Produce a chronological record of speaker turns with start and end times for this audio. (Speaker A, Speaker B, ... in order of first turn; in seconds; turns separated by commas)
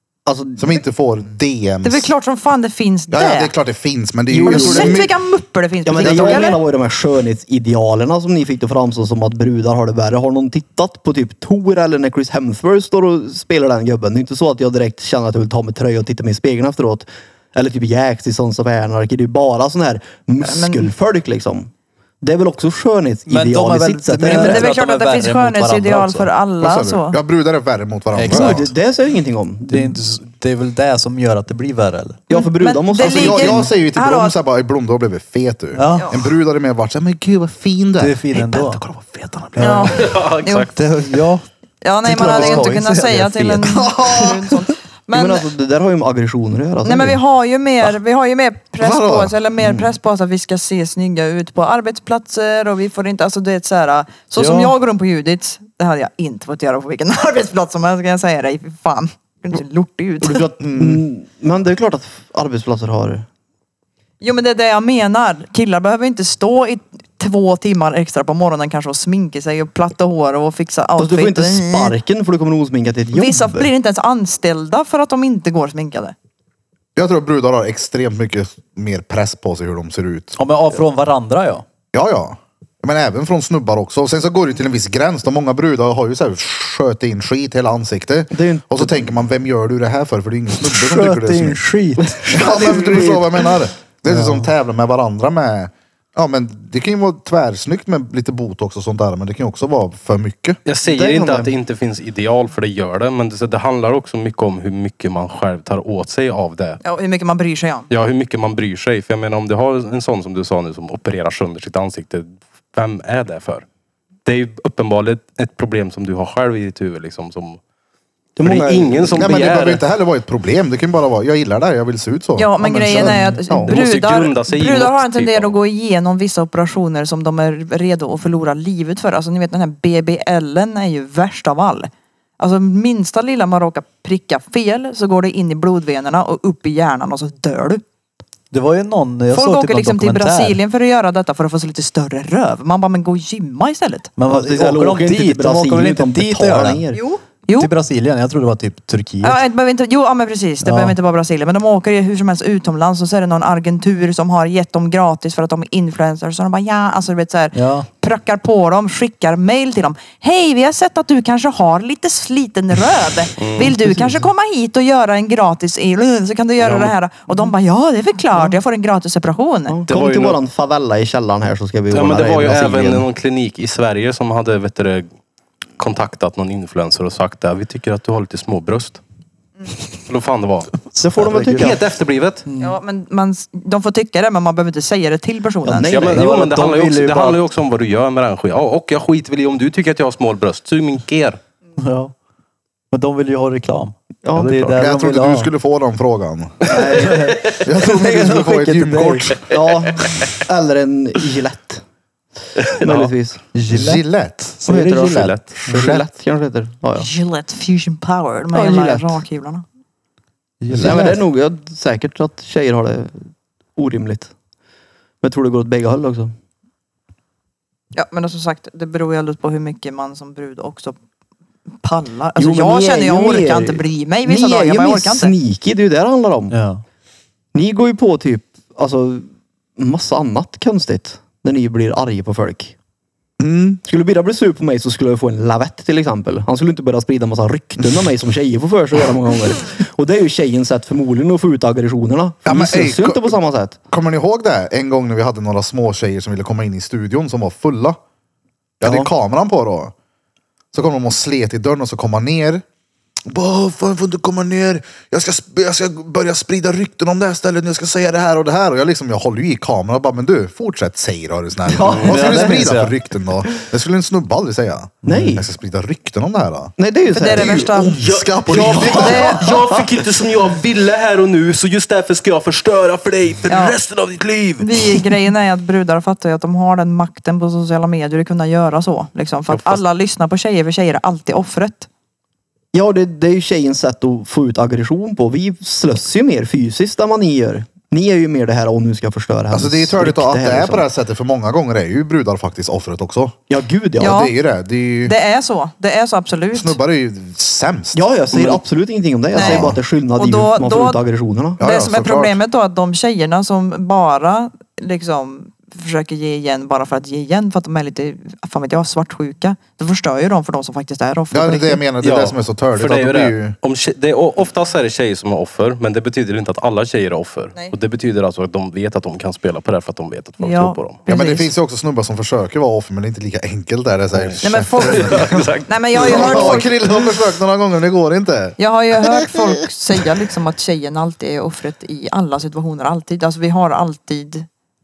Speaker A: 0.3-0.8, Speaker B: 0.6-2.1, Speaker C: 1.8-3.5, Speaker B: 3.1-5.1, Speaker A: 4.3-5.0, Speaker C: 4.4-6.6, Speaker A: 5.8-21.7, Speaker B: 6.0-6.5, Speaker C: 20.4-20.9, Speaker A: 22.2-24.7, Speaker D: 23.3-26.3, Speaker C: 24.2-27.2, Speaker B: 26.6-28.7, Speaker D: 28.1-28.7, Speaker A: 28.3-30.0, Speaker D: 29.7-32.2, Speaker A: 32.3-33.7, Speaker C: 32.3-34.4, Speaker B: 33.0-40.1, Speaker D: 35.8-36.2, Speaker D: 38.0-38.8, Speaker D: 39.6-39.9, Speaker C: 39.6-40.7, Speaker E: 39.9-40.7, Speaker D: 40.7-41.5, Speaker C: 41.8-45.5, Speaker D: 42.0-43.8, Speaker A: 42.2-42.7, Speaker B: 43.6-44.6, Speaker A: 45.1-47.2, Speaker C: 46.8-60.5, Speaker B: 48.8-49.4, Speaker D: 54.4-54.8, Speaker A: 60.2-63.3, Speaker B: 60.6-61.0, Speaker C: 64.2-71.9, Speaker A: 71.0-73.7, Speaker C: 73.1-76.2, Speaker B: 77.0-80.4, Speaker D: 80.4-81.6, Speaker B: 81.9-91.6, Speaker A: 88.3-89.1, Speaker D: 90.6-92.2, Speaker A: 92.0-93.5, Speaker B: 92.3-100.6, Speaker D: 94.1-94.5, Speaker E: 100.7-106.8, Speaker A: 100.8-101.5, Speaker C: 106.8-107.9, Speaker E: 107.9-113.7, Speaker E: 114.3-117.6, Speaker A: 118.4-119.8, Speaker E: 118.4-119.8, Speaker B: 119.2-123.2, Speaker C: 122.4-137.8, Speaker A: 122.9-123.7, Speaker E: 123.7-125.6, Speaker D: 138.5-140.6, Speaker C: 139.3-144.1, Speaker D: 144.2-146.8, Speaker A: 144.3-147.0, Speaker C: 146.9-147.7, Speaker D: 147.6-149.4, Speaker C: 149.2-169.8, Speaker D: 150.6-151.0, Speaker D: 157.6-157.9, Speaker E: 163.4-163.8, Speaker E: 166.6-166.9, Speaker A: 169.7-173.1, Speaker E: 169.9-170.4, Speaker E: 171.9-175.1, Speaker E: 175.8-179.0, Speaker E: 180.1-180.8, Speaker D: 181.0-181.8, Speaker A: 181.0-181.8, Speaker E: 181.6-182.5, Speaker D: 182.5-182.8, Speaker C: 182.6-185.9, Speaker A: 185.7-186.6, Speaker D: 185.8-187.4, Speaker E: 185.9-191.4, Speaker D: 191.8-192.1, Speaker D: 192.9-195.5, Speaker A: 194.2-194.6, Speaker B: 194.7-196.8, Speaker A: 196.7-197.4, Speaker D: 197.0-199.4, Speaker B: 197.6-199.4, Speaker A: 199.4-201.8, Speaker E: 202.6-203.1, Speaker A: 202.8-203.4, Speaker D: 203.5-204.0, Speaker B: 203.7-204.6, Speaker D: 204.6-206.0, Speaker A: 204.7-207.1, Speaker E: 204.7-205.5, Speaker C: 207.0-209.6, Speaker A: 208.5-209.2, Speaker D: 210.6-211.2, Speaker A: 210.7-214.3, Speaker A: 215.2-216.3, Speaker C: 217.9-221.0, Speaker C: 221.8-225.3, Speaker A: 222.4-226.6, Speaker D: 226.5-226.8, Speaker A: 227.5-232.8, Speaker B: 233.4-233.8, Speaker A: 233.8-243.8, Speaker B: 242.4-243.3, Speaker B: 243.9-248.0, Speaker B: 248.8-249.9, Speaker A: 248.8-249.1, Speaker B: 250.7-252.6, Speaker B: 253.3-266.7, Speaker A: 261.7-262.6, Speaker D: 262.0-263.0, Speaker A: 265.1-265.5, Speaker D: 265.1-265.4, Speaker A: 266.8-268.0, Speaker C: 267.1-268.0, Speaker B: 267.3-269.4, Speaker E: 267.8-275.1, Speaker A: 268.5-269.9, Speaker C: 268.9-269.5, Speaker C: 273.5-273.8, Speaker C: 274.6-281.9, Speaker E: 279.5-279.8, Speaker A: 282.7-290.9, Speaker B: 289.5-293.4, Speaker A: 293.5-294.2, Speaker C: 294.0-294.3, Speaker B: 294.0-295.1, Speaker C: 295.1-296.8, Speaker B: 296.5-298.0, Speaker A: 297.9-301.6, Speaker C: 299.3-301.0, Speaker B: 299.4-299.8, Speaker B: 301.6-302.4, Speaker C: 301.6-311.8, Speaker B: 311.3-313.6, Speaker E: 312.0-321.0, Speaker C: 320.4-321.5, Speaker B: 321.1-325.4, Speaker E: 324.1-326.7, Speaker C: 324.4-326.7, Speaker B: 326.0-330.1, Speaker C: 328.6-334.5